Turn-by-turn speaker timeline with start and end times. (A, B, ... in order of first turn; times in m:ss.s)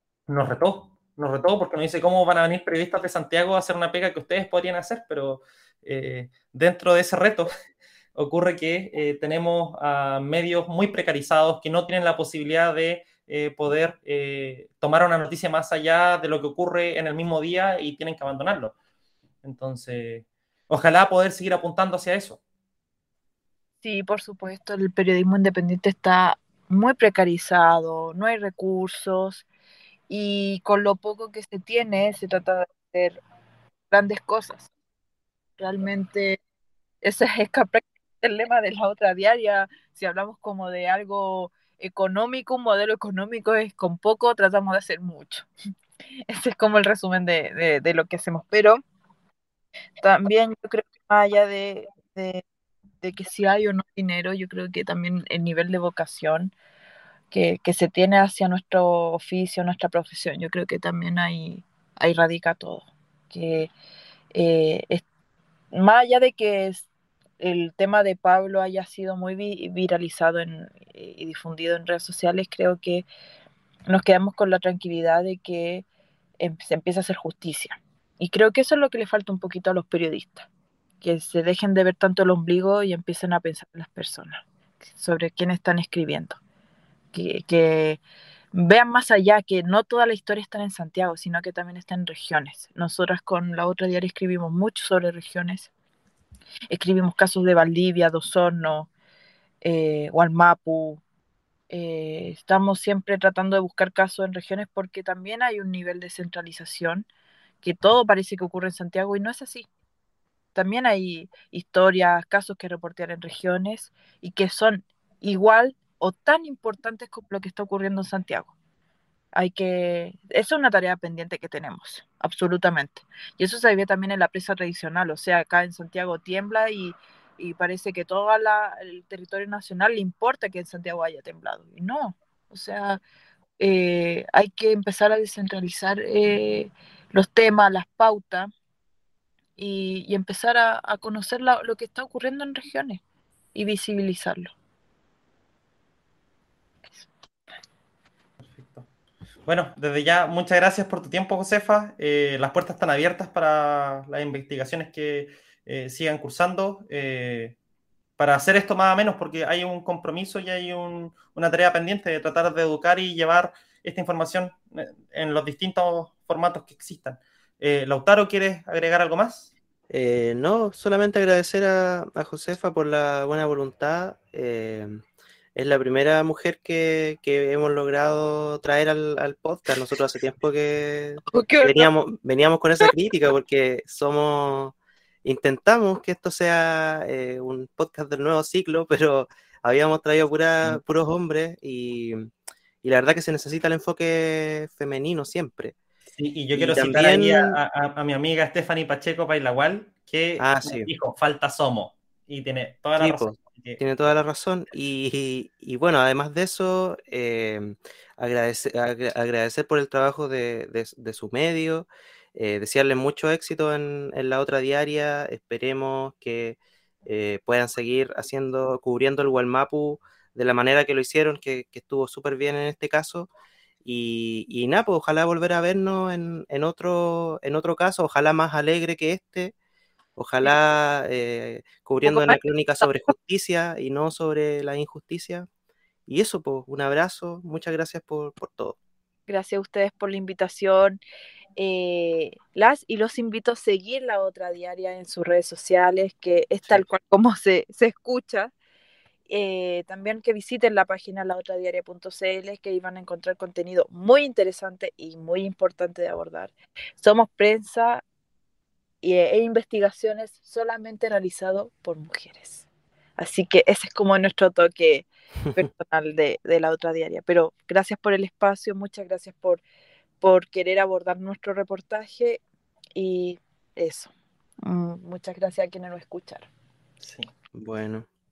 0:00.3-0:07.5 A
0:08.2-0:18.7 A
0:19.4-0:22.4 A
0:23.8-0:29.4 B
0:30.1-0:33.2 B
0:33.9-0:34.7 B
0:35.6-0:36.4 B
0:37.0-0:45.5 B
0:46.3-0:48.8 B
0:50.0-0:52.4 B
0:53.0-0:56.5 B
0:57.3-1:03.7 B
1:04.3-1:05.0 B
1:05.7-1:06.9 B
1:07.4-1:13.0 B
1:13.9-1:15.8 B
1:16.4-1:20.5 B
1:21.0-1:26.4 B
1:27.1-1:28.0 B
1:28.5-1:35.7 B
1:36.7-1:38.9 B
1:39.6-1:41.0 B
1:41.7-1:47.1 B
1:47.6-1:49.7 B
1:50.5-1:58.5 B
1:59.3-2:13.0 B
2:13.6-2:18.5 B
2:19.6-2:23.0 B
2:23.5-2:24.5 B
2:28.4-2:28.8 A
2:29.4-2:37.5 A
2:38.2-2:49.5 A
2:49.9-2:55.0 C
2:55.5-3:12.3 C
3:01.3-3:01.9 B
3:12.8-3:15.7 C
3:16.1-3:23.8 A
3:16.5-3:17.6 C
3:20.4-3:20.9 C
3:23.0-3:43.3 C
3:43.8-3:49.5 C
3:50.2-3:55.5 C
3:52.0-3:52.4 B
3:56.1-3:58.8 C
3:59.3-4:01.0 B
4:01.6-4:08.5 B
4:09.3-4:18.0 B
4:19.0-4:22.6 B
4:23.2-4:29.6 B
4:30.2-4:32.4 B
4:33.0-4:34.1 B
4:34.6-4:36.5 B
4:37.0-4:37.3 A
4:37.5-4:38.1 C